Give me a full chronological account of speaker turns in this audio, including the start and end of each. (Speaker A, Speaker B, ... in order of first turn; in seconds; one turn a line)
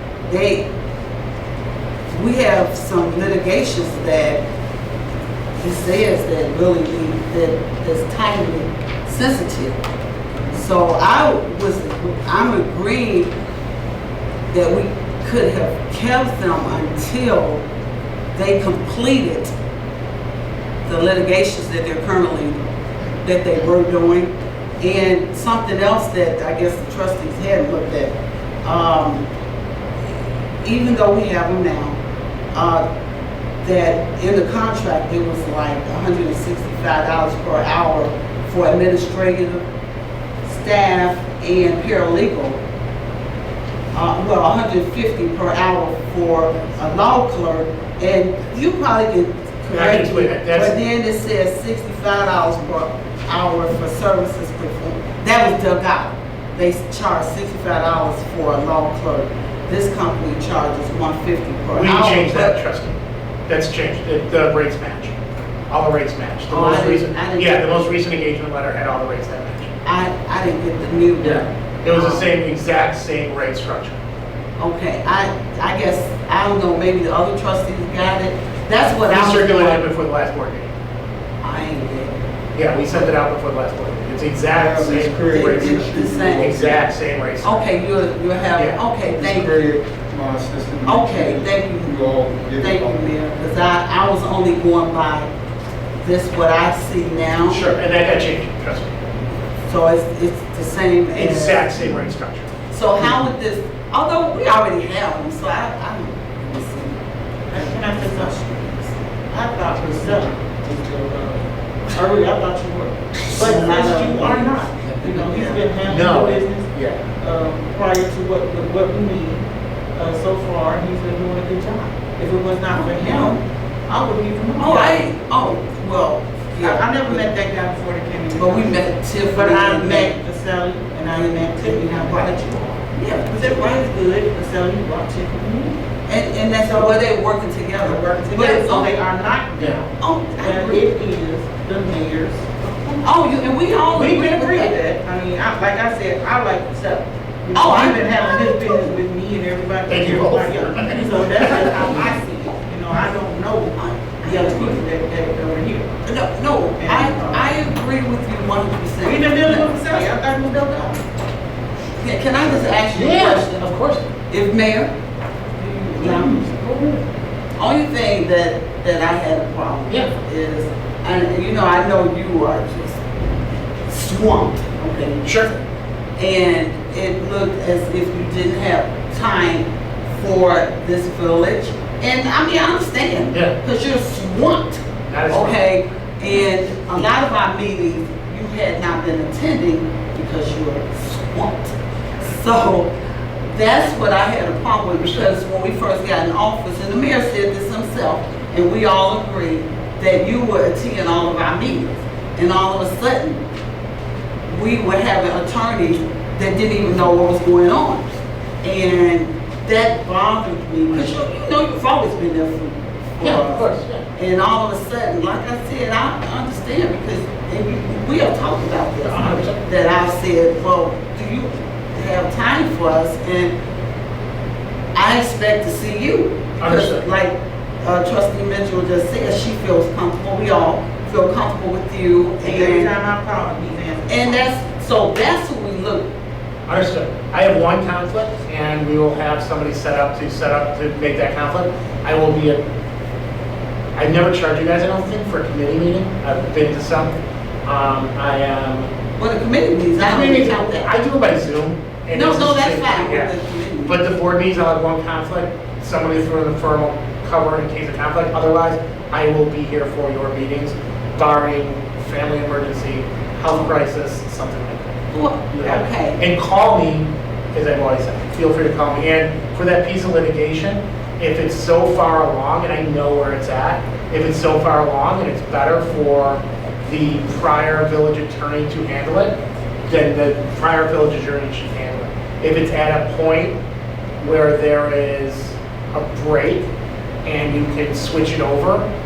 Speaker A: 0.3-0.7
Speaker A: 2.1-4.4
Speaker A: 5.6-9.8
Speaker A: 10.5-13.3
Speaker A: 14.5-17.7
Speaker A: 18.4-19.5
Speaker A: 20.9-22.6
Speaker A: 23.2-28.1
Speaker A: 28.6-29.3
Speaker A: 30.6-32.0
Speaker A: 32.5-32.9
Speaker A: 33.6-39.7
Speaker A: 40.4-42.6
Speaker A: 43.9-62.6
Speaker B: 49.7-50.8
Speaker B: 61.8-65.2
Speaker B: 65.7-69.7
Speaker A: 66.5-67.8
Speaker A: 69.8-72.3
Speaker B: 71.2-74.0
Speaker A: 74.6-79.8
Speaker B: 79.1-80.7
Speaker A: 81.4-82.2
Speaker B: 82.5-85.8
Speaker C: 84.5-86.8
Speaker A: 85.3-86.6
Speaker B: 86.4-87.7
Speaker A: 87.4-89.6
Speaker B: 88.5-88.8
Speaker C: 89.2-93.0
Speaker A: 90.9-92.0
Speaker A: 92.6-95.3
Speaker A: 96.0-97.6
Speaker B: 97.4-99.0
Speaker A: 99.7-101.7
Speaker B: 101.1-102.5
Speaker A: 102.7-107.0
Speaker D: 107.5-108.3
Speaker A: 107.6-109.0
Speaker D: 109.3-119.4
Speaker A: 109.9-110.2
Speaker A: 113.3-115.7
Speaker B: 115.9-117.1
Speaker D: 120.0-125.1
Speaker A: 122.7-123.4
Speaker A: 124.6-127.3
Speaker D: 126.6-135.8
Speaker A: 128.3-130.2
Speaker A: 131.0-132.3
Speaker A: 132.9-133.8
Speaker A: 136.1-138.9
Speaker D: 136.6-137.0
Speaker D: 137.8-139.9
Speaker A: 140.0-140.9
Speaker D: 140.4-143.1
Speaker A: 143.0-144.8
Speaker D: 143.9-155.9
Speaker A: 147.6-148.9
Speaker B: 149.9-152.1
Speaker A: 153.8-154.8
Speaker A: 156.1-160.1
Speaker D: 156.8-157.5
Speaker D: 159.0-161.0
Speaker A: 162.0-163.7
Speaker B: 162.9-164.1
Speaker A: 164.3-164.9
Speaker D: 165.6-166.7
Speaker A: 166.0-166.4
Speaker B: 166.2-167.0
Speaker A: 167.6-173.1
Speaker A: 173.9-175.3
Speaker B: 175.2-175.6
Speaker A: 176.2-192.9
Speaker B: 185.1-185.6
Speaker A: 193.5-203.4
Speaker A: 204.5-223.5
Speaker B: 213.2-214.1
Speaker B: 219.1-219.6
Speaker A: 224.9-232.9
Speaker B: 226.6-227.0
Speaker D: 232.4-234.5
Speaker A: 234.1-236.1
Speaker B: 236.7-242.6
Speaker B: 244.0-248.9
Speaker A: 249.2-250.9
Speaker B: 250.0-253.3
Speaker A: 252.1-254.0
Speaker B: 253.8-264.9
Speaker A: 265.1-266.2
Speaker B: 265.5-283.6
Speaker B: 284.2-286.7
Speaker B: 287.2-288.9